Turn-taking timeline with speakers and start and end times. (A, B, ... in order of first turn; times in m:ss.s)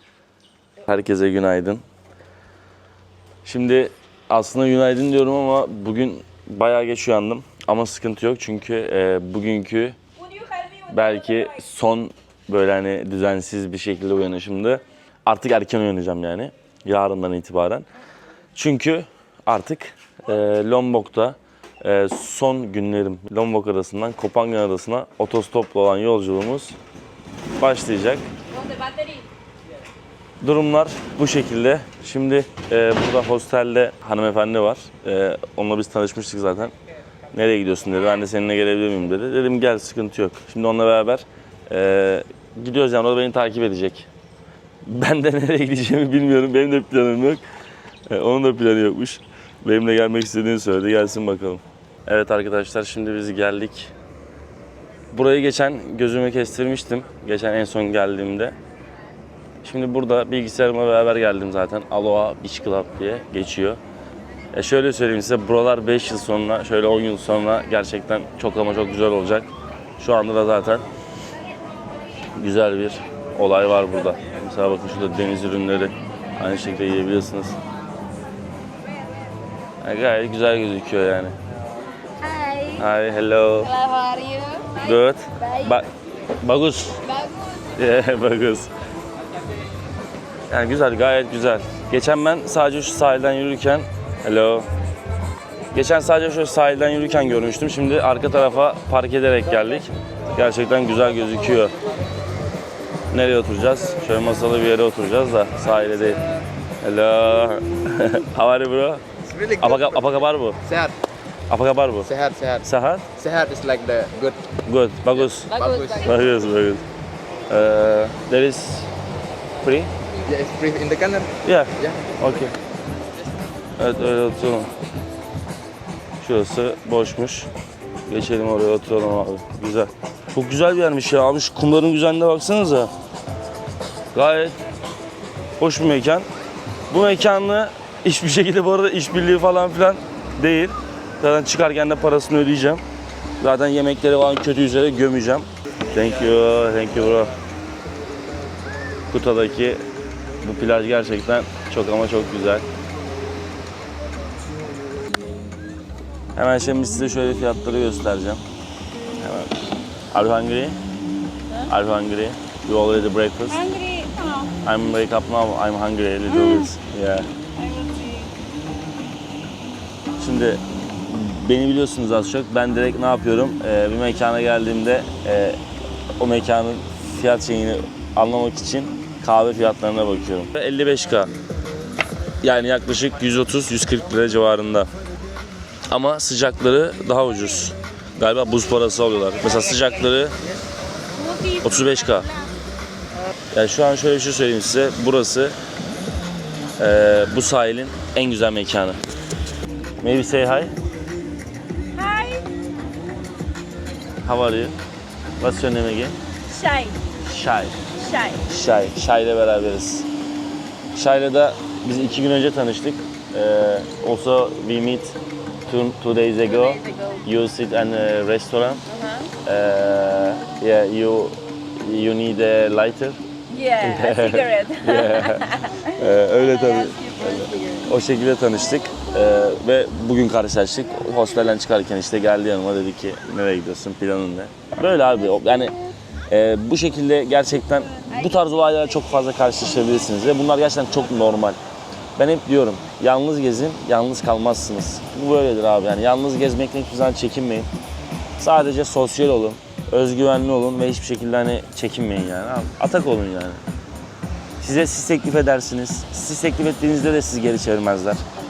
0:00.8-0:01.8 A
0:03.4-0:10.0 A
0:10.2-0:11.6 B
0:10.9-0:17.8 A
0:18.5-0:26.7 A
0:27.6-0:28.2 A
0:28.5-0:29.3 B
0:30.4-0:36.7 A
0:37.3-0:44.1 A
0:44.8-0:47.4 A
0:48.1-0:53.9 A
0:55.1-0:58.5 A
0:59.6-1:03.8 A
1:04.5-1:10.8 A
1:12.4-1:17.6 A
1:19.8-1:21.3 A
1:22.2-1:22.8 B
1:22.8-1:23.7 A
1:23.6-1:25.8 B
1:24.8-1:25.9 A
1:26.4-1:27.0 A
1:27.0-1:27.5 B
1:27.8-1:28.7 A
1:30.5-1:34.7 A
1:35.7-1:41.7 A
1:43.1-1:46.2 A
1:46.8-1:49.0 A
1:49.2-1:50.9 C
1:49.6-1:50.6 A
1:51.5-1:52.1 A
1:52.0-1:54.5 C
1:52.6-1:53.0 A
1:54.6-1:56.8 A
1:55.1-1:56.2 C
1:55.5-1:56.1 B
1:57.5-1:58.9 A
1:59.6-1:59.9 A
2:00.2-2:02.5 C
2:01.4-2:02.5 A
2:03.8-2:04.7 A
2:06.2-2:07.5 A
2:08.1-2:12.9 A
2:14.1-2:14.6 A
2:15.6-2:16.3 A
2:16.9-2:22.8 A
2:23.4-2:27.3 A
2:29.1-2:29.8 A
2:30.4-2:32.6 A
2:36.4-2:38.4 A
2:39.2-2:39.5 A
2:40.1-2:40.8 A
2:41.7-2:43.6 A
2:43.5-2:44.5 B
2:44.6-2:47.3 A
2:46.3-2:46.7 B
2:47.6-2:48.3 B
2:50.2-2:55.6 A
2:56.2-3:01.3 A
3:02.4-3:04.9 A
3:05.9-3:10.3 A
3:09.4-3:09.9 B
3:11.1-3:12.5 B
3:11.6-3:12.3 A
3:13.5-3:15.6 A
3:16.8-3:19.0 A
3:20.0-3:20.7 A
3:21.9-3:22.4 B
3:24.2-3:24.7 A
3:25.4-3:26.2 A
3:26.5-3:27.0 B
3:27.2-3:27.8 A
3:27.9-3:28.4 B
3:28.5-3:30.1 A
3:31.0-3:38.8 A
3:36.4-3:37.2 B
3:38.9-3:39.3 B
3:39.4-3:43.2 A
3:43.5-3:47.9 B
3:43.8-3:55.7 A
3:56.3-4:01.6 A
3:58.0-3:59.9 B
4:02.2-4:07.7 A
4:08.4-4:13.6 A
4:14.6-4:18.2 A